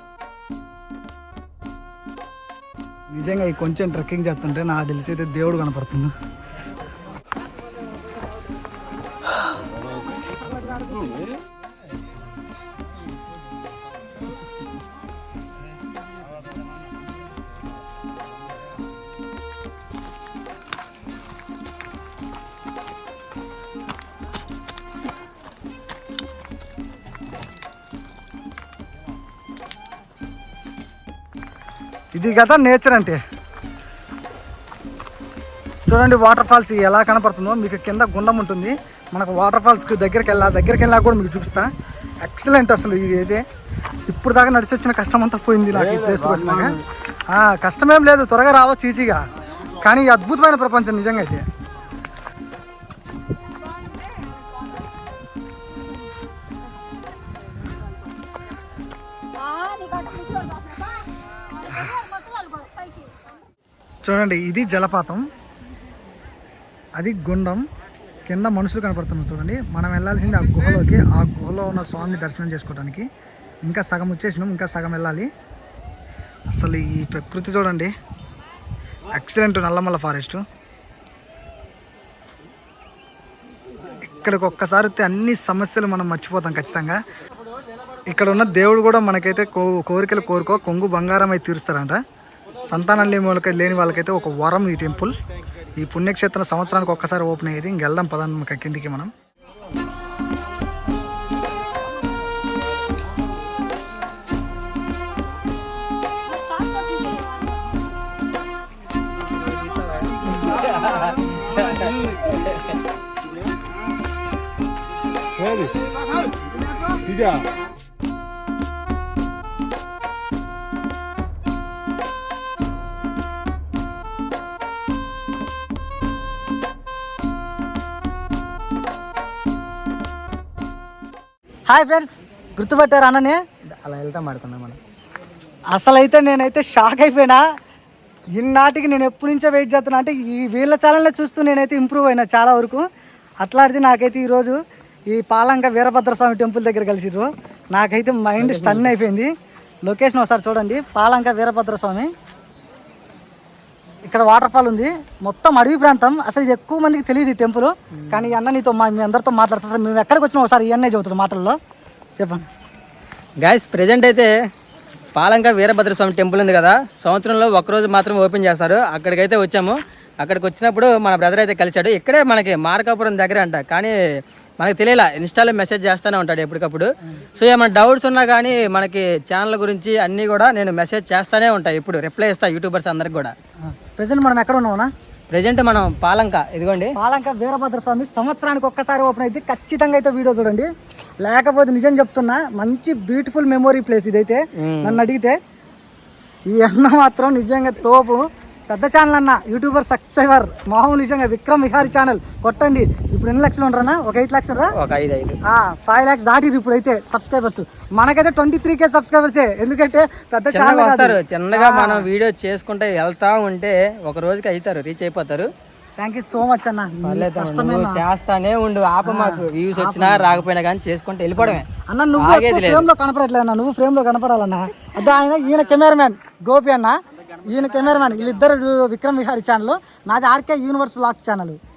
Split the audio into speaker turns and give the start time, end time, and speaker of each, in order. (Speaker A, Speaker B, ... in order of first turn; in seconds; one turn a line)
Speaker A: 3.2-6.1
Speaker A: 32.1-33.2
Speaker A: 35.9-41.7
Speaker A: 42.2-43.4
Speaker A: 44.1-46.8
Speaker A: 47.3-49.2
Speaker A: 49.8-51.4
Speaker A: 61.7-62.3
Speaker A: 64.0-65.2
Speaker A: 67.0-67.6
Speaker A: 68.3-73.1
Speaker A: 73.7-75.3
Speaker A: 76.5-77.9
Speaker A: 79.1-80.4
Speaker A: 84.0-87.0
Speaker A: 88.1-92.0
Speaker A: 92.7-95.1
Speaker A: 95.8-99.1
Speaker B: 109.3-112.7
Speaker A: 131.7-133.4
Speaker B: 133.7-134.8
Speaker A: 135.7-137.4
Speaker A: 138.4-142.8
Speaker A: 143.4-144.5
Speaker A: 145.1-149.3
Speaker B: 148.4-148.9
Speaker A: 149.9-152.1
Speaker A: 154.1-161.6
Speaker B: 158.0-158.3
Speaker A: 162.2-162.4
Speaker B: 163.4-164.3
Speaker B: 165.2-173.9
Speaker B: 174.6-183.3
Speaker A: 183.8-184.9
Speaker B: 185.3-186.9
Speaker A: 186.9-190.7
Speaker A: 191.2-195.3
Speaker B: 194.6-195.0
Speaker A: 196.5-204.7
Speaker B: 204.8-205.4
Speaker A: 205.5-212.1
Speaker B: 210.5-215.5
Speaker A: 216.0-218.0
Speaker B: 217.0-221.7
Speaker A: 219.0-220.5
Speaker A: 221.4-226.9
Speaker B: 222.2-222.9
Speaker A: 227.5-231.6